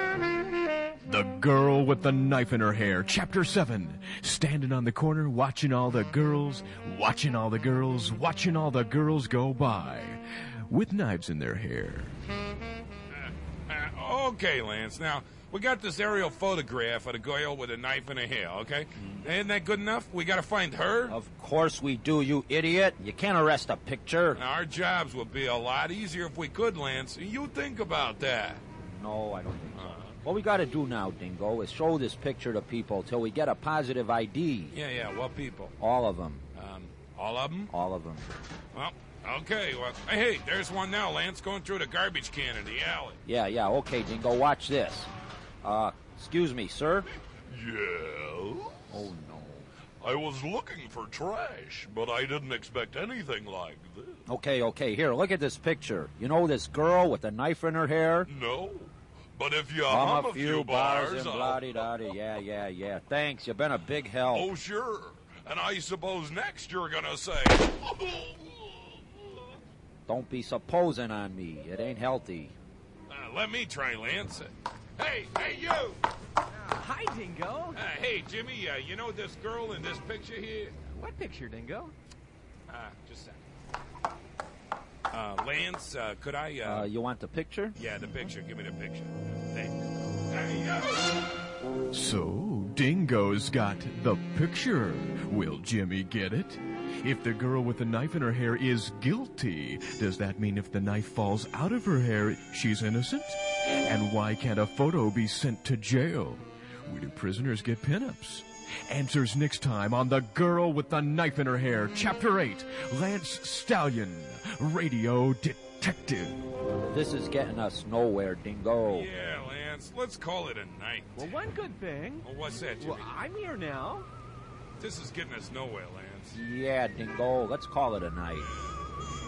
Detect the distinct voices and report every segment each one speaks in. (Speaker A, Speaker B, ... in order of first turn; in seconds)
Speaker A: 1.1-12.2, 91.9-116.4
Speaker B: 13.2-21.2, 24.3-28.6, 29.8-30.2, 34.7-35.8, 36.5-37.7, 38.7-43.2, 73.1-76.0, 77.7-80.8, 82.7-83.4, 85.1-86.9, 87.8-91.1, 118.9-121.3, 122.2-123.1, 124.8-126.4
Speaker C: 21.1-24.4, 28.8-34.7, 35.8-36.4, 37.7-38.4, 43.2-45.1, 45.6-47.1, 48.9-49.7, 54.3-58.3, 59.9-64.5, 70.1-72.5, 86.6-87.8, 116.9-119.1, 126.3-128.5
Speaker D: 47.5-49.0, 50.0-54.3, 58.3-61.9, 64.3-69.2
Speaker E: 76.6-77.8, 80.8-81.9, 121.2-124.1